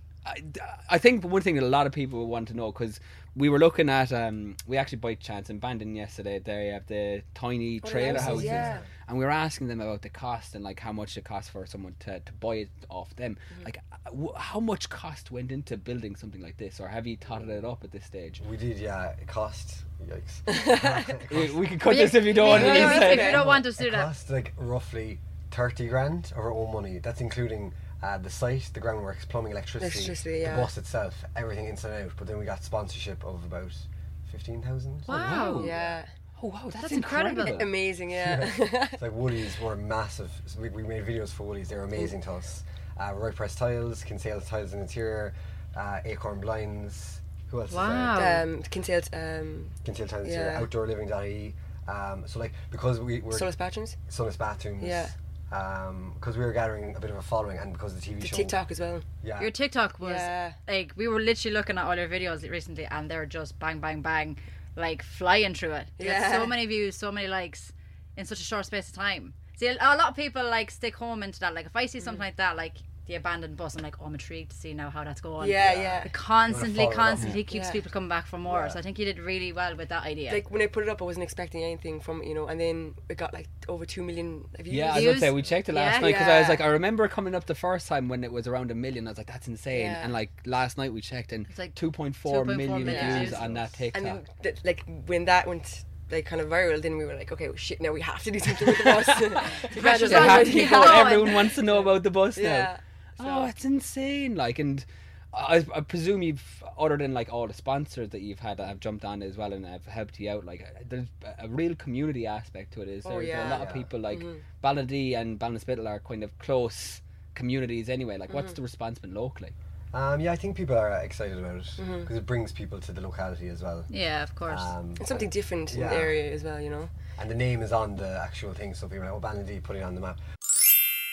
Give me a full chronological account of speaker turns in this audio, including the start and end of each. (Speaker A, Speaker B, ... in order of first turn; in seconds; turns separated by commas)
Speaker A: 0.2-18.4, Speaker B: 7.8-8.8, Speaker C: 8.0-8.9, Speaker C: 18.4-21.7, Speaker B: 20.5-21.1, Speaker A: 21.3-23.5, Speaker D: 21.9-24.1, Speaker B: 22.4-23.5, Speaker C: 22.4-36.0, Speaker B: 29.8-30.7, Speaker A: 35.1-35.7, Speaker D: 35.1-35.7, Speaker B: 35.6-36.1, Speaker A: 36.4-37.7, Speaker D: 36.8-37.7, Speaker B: 37.5-39.0, Speaker C: 38.1-48.4, Speaker D: 47.7-48.5, Speaker B: 48.1-50.7, Speaker C: 49.8-58.6, Speaker B: 53.3-54.0, Speaker B: 54.8-55.1, Speaker B: 58.2-59.1, Speaker C: 59.2-59.5, Speaker D: 59.4-80.4, Speaker B: 60.0-60.6, Speaker B: 66.0-66.6, Speaker B: 75.4-76.1, Speaker C: 75.6-77.4, Speaker B: 77.5-77.8, Speaker C: 78.5-78.8, Speaker B: 80.3-85.3, Speaker A: 84.7-94.2, Speaker D: 84.9-86.3, Speaker B: 86.0-86.6, Speaker B: 89.7-90.1, Speaker D: 91.5-93.5, Speaker B: 92.8-93.4, Speaker C: 93.3-93.7, Speaker B: 93.9-103.5, Speaker A: 98.7-119.5, Speaker D: 99.7-101.6, Speaker B: 113.0-114.4, Speaker C: 113.3-113.9, Speaker B: 118.3-118.6, Speaker C: 119.9-123.9, Speaker B: 121.8-122.1, Speaker D: 123.9-124.8, Speaker C: 124.5-126.2, Speaker B: 125.0-126.9, Speaker C: 127.2-130.2